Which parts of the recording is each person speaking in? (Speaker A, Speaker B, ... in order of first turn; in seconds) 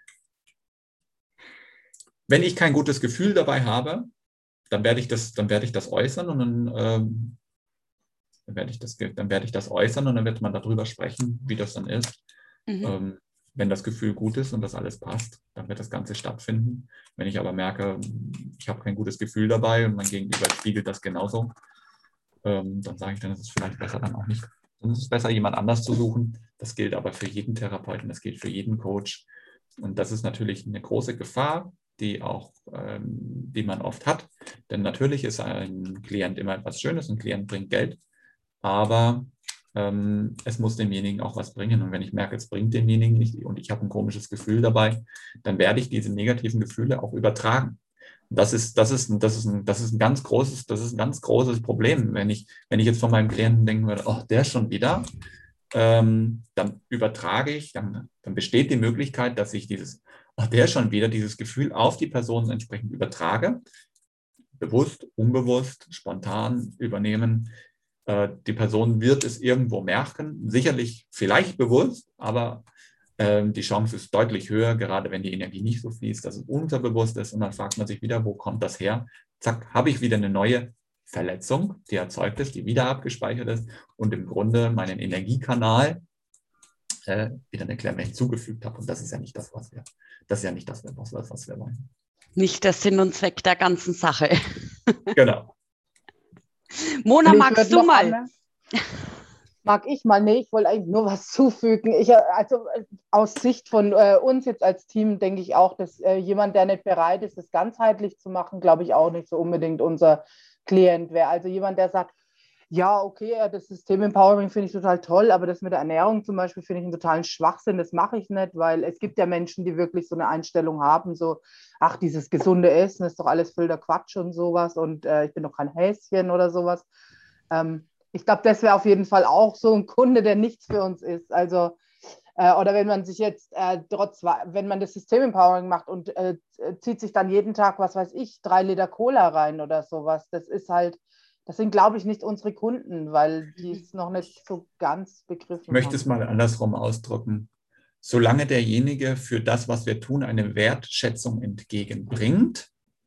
Speaker A: 2.3-4.1, 4.7-7.4, 8.5-12.2, 12.8-21.5, 22.4-29.3, 29.8-38.0, 38.6-55.1, 55.7-63.6, 64.6-67.5, 68.1-72.7, 73.2-86.0, 87.1-91.9, 95.2-95.5, 145.7-147.5, 148.0-152.7
Speaker B: 12.7-12.9, 92.4-95.2, 96.7-98.2
Speaker C: 97.2-98.3, 99.6-112.1, 112.7-126.9, 127.5-131.8, 132.4-146.1